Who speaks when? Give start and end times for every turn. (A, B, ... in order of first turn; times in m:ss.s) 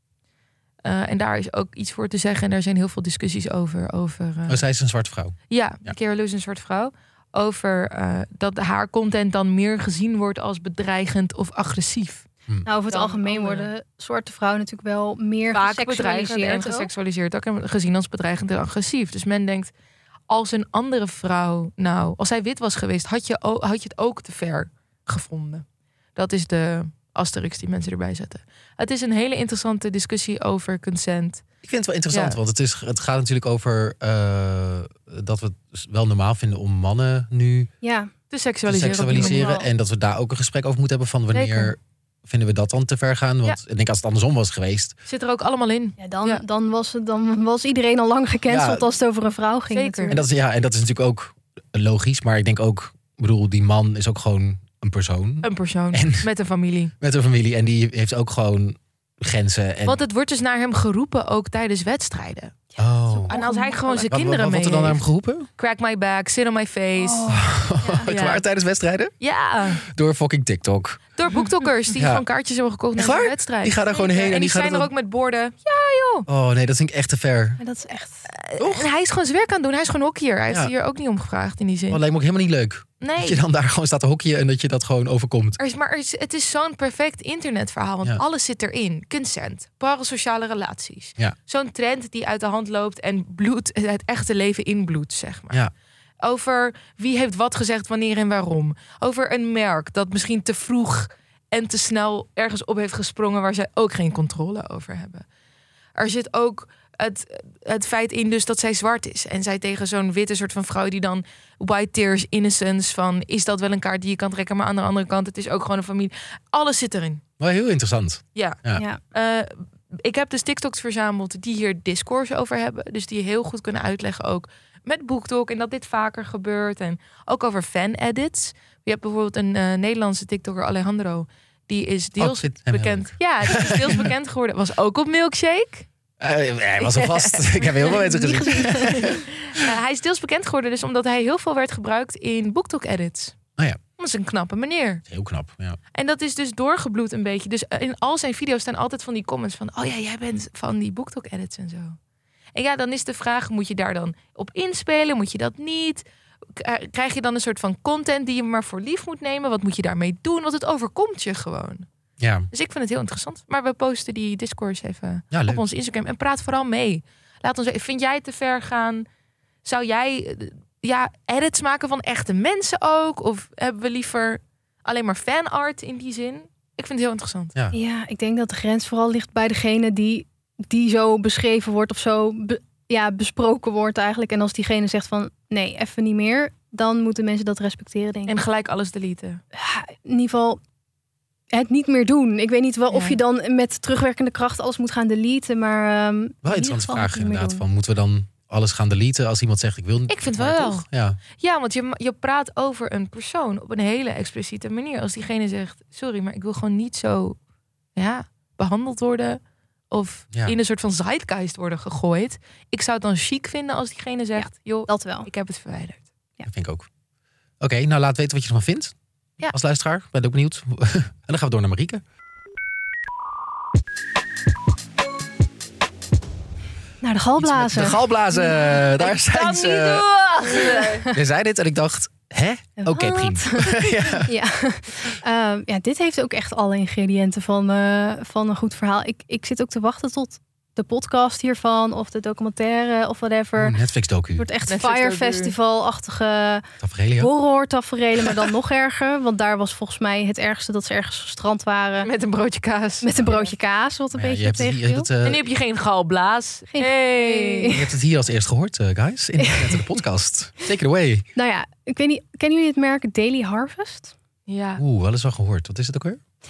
0:00.8-0:04.6 A
0:04.5-0:05.9 B
0:05.5-0:12.3 A
0:12.7-0:16.9 C
0:12.9-0:13.7 A
0:15.5-0:19.7 A
0:20.3-0:25.6 A
0:26.2-0:31.4 A
0:31.6-0:37.7 B
0:32.1-0:32.4 A
0:37.8-0:38.1 C
0:38.3-0:39.6 A
0:38.7-0:45.0 B
0:39.1-0:39.7 C
0:41.3-0:41.7 A
0:45.1-0:46.4 A
0:46.0-0:50.2 C
0:48.5-0:48.8 B
0:49.7-0:50.2 A
0:50.1-0:56.3 B
0:55.4-0:56.9 A
0:57.0-1:00.0 B
0:59.9-1:02.6 A
1:02.8-1:03.8 C
1:02.8-1:03.4 B
1:03.3-1:05.0 A
1:03.9-1:05.5 B
1:05.6-1:07.3 A
1:07.0-1:08.1 C
1:07.3-1:09.1 B
1:08.1-1:08.4 A
1:09.2-1:09.8 A
1:09.8-1:11.0 B
1:11.2-1:16.3 A
1:12.0-1:12.2 B
1:13.0-1:14.9 B
1:16.3-1:17.6 B
1:17.6-1:18.3 C
1:18.3-1:22.0 A
1:18.6-1:18.9 B
1:21.9-1:25.6 B
1:23.0-1:23.4 A
1:25.6-1:35.6 A
1:36.2-1:45.2 A
1:46.0-1:57.2 A
1:57.4-1:58.8 B
1:58.4-1:58.6 A
1:59.1-2:15.9 A
2:12.2-2:14.1 B
2:16.2-2:19.2 B
2:16.8-2:23.4 A
2:18.5-2:18.8 C
2:24.0-2:25.0 A
2:25.1-2:25.8 B
2:25.9-2:32.0 A
2:32.6-2:36.0 A
2:36.6-2:41.9 A
2:42.2-2:42.5 B
2:42.5-2:49.1 A
2:45.3-2:45.6 B
2:49.6-2:57.5 A
2:57.7-3:08.4 C
3:08.3-3:09.4 A
3:09.6-3:10.6 C
3:11.5-3:17.6 C
3:12.9-3:13.2 A
3:16.4-3:21.2 B
3:20.1-3:20.8 A
3:21.4-3:27.4 A
3:28.0-3:29.4 A
3:29.9-3:36.1 A
3:34.4-3:35.3 C
3:36.5-3:36.9 B
3:37.6-3:38.9 B
3:39.5-3:42.0 B
3:47.0-3:48.0 C
3:47.4-3:50.1 B
3:49.0-3:51.1 A
3:51.1-3:54.3 B
3:52.8-4:03.8 C
4:03.6-4:04.5 B
4:04.4-4:06.6 C
4:04.7-4:05.6 A
4:06.8-4:07.3 B
4:07.2-4:12.1 C
4:12.0-4:13.5 A
4:13.0-4:15.1 C
4:14.1-4:15.4 B
4:15.2-4:17.8 A
4:16.7-4:17.8 C
4:17.7-4:21.2 B
4:19.4-4:19.8 C
4:21.4-4:24.1 C
4:24.5-4:24.8 A
4:24.8-4:26.2 B